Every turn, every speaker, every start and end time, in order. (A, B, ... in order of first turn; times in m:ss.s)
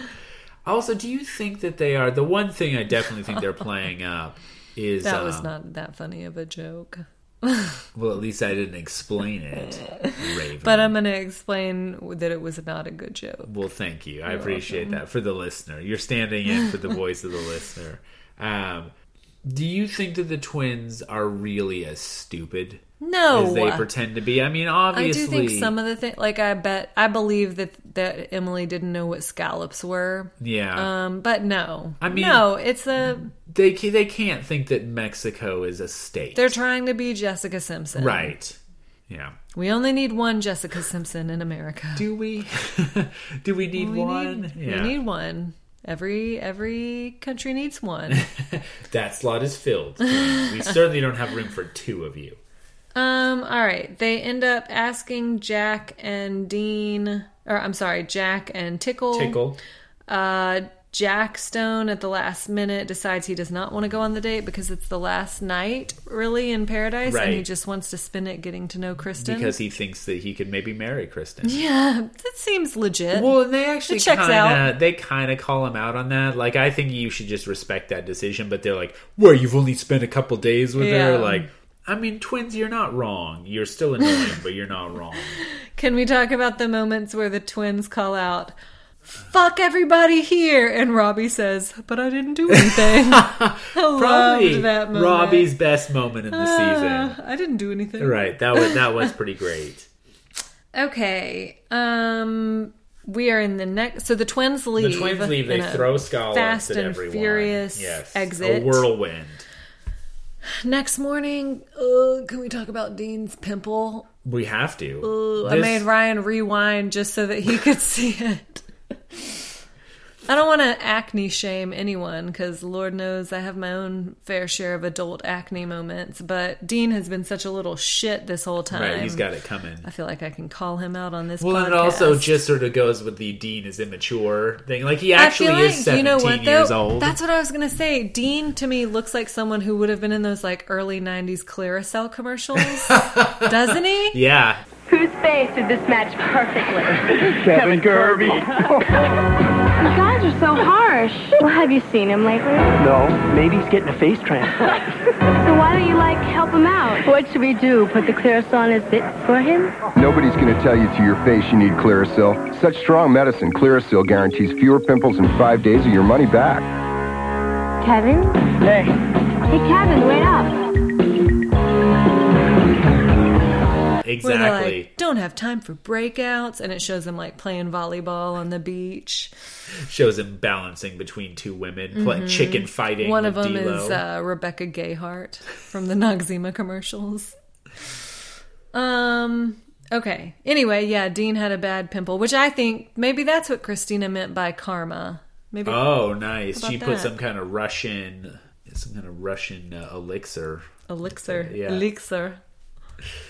0:00.6-0:05.5 A
0:05.0-0:07.8 B
0:07.9-0:11.0 A
0:10.6-0:13.5 B
0:13.5-0:18.9 A
0:14.3-0:15.0 B
0:19.4-0:25.7 A
0:23.0-0:23.8 B
0:24.9-0:33.3 B
0:30.4-0:30.9 A
0:32.0-0:32.5 A
0:33.0-0:36.6 A
0:36.4-0:38.3 B
0:37.9-0:38.6 A
0:39.1-0:39.4 A
0:39.5-0:42.0 B
0:42.0-0:45.0 A
0:43.8-0:48.2 B
0:48.1-0:52.4 A
0:50.0-0:50.6 B
0:52.9-0:59.4 B
0:59.1-0:59.6 A
1:00.1-1:09.6 B
1:07.0-1:07.5 A
1:09.2-1:11.6 A
1:11.4-1:13.3 B
1:13.1-1:25.4 A
1:13.9-1:14.7 B
1:20.8-1:21.5 B
1:25.6-1:28.5 B
1:29.3-1:35.5 B
1:32.5-1:37.2 A
1:36.3-1:39.1 B
1:38.0-1:39.9 A
1:40.7-1:48.9 B
1:44.8-1:49.5 A
1:50.5-1:54.1 B
1:54.2-1:55.9 A
1:55.0-1:58.6 B
2:00.3-2:09.2 B
2:08.7-2:09.9 A
2:09.8-2:12.4 B
2:11.4-2:17.2 A
2:15.2-2:24.2 B
2:22.6-2:24.6 A
2:24.9-2:28.8 C
2:27.4-2:28.7 D
2:29.8-2:32.8 C
2:32.8-2:34.5 D
2:35.4-2:39.8 C
2:39.9-2:46.7 E
2:47.8-2:48.5 C
2:49.5-2:50.6 C
2:54.0-2:54.9 A
2:54.2-2:59.3 B
2:59.7-3:04.0 A
3:01.9-3:07.3 B
3:08.7-3:16.0 B
3:15.6-3:21.8 A
3:16.5-3:17.1 B
3:20.9-3:22.4 B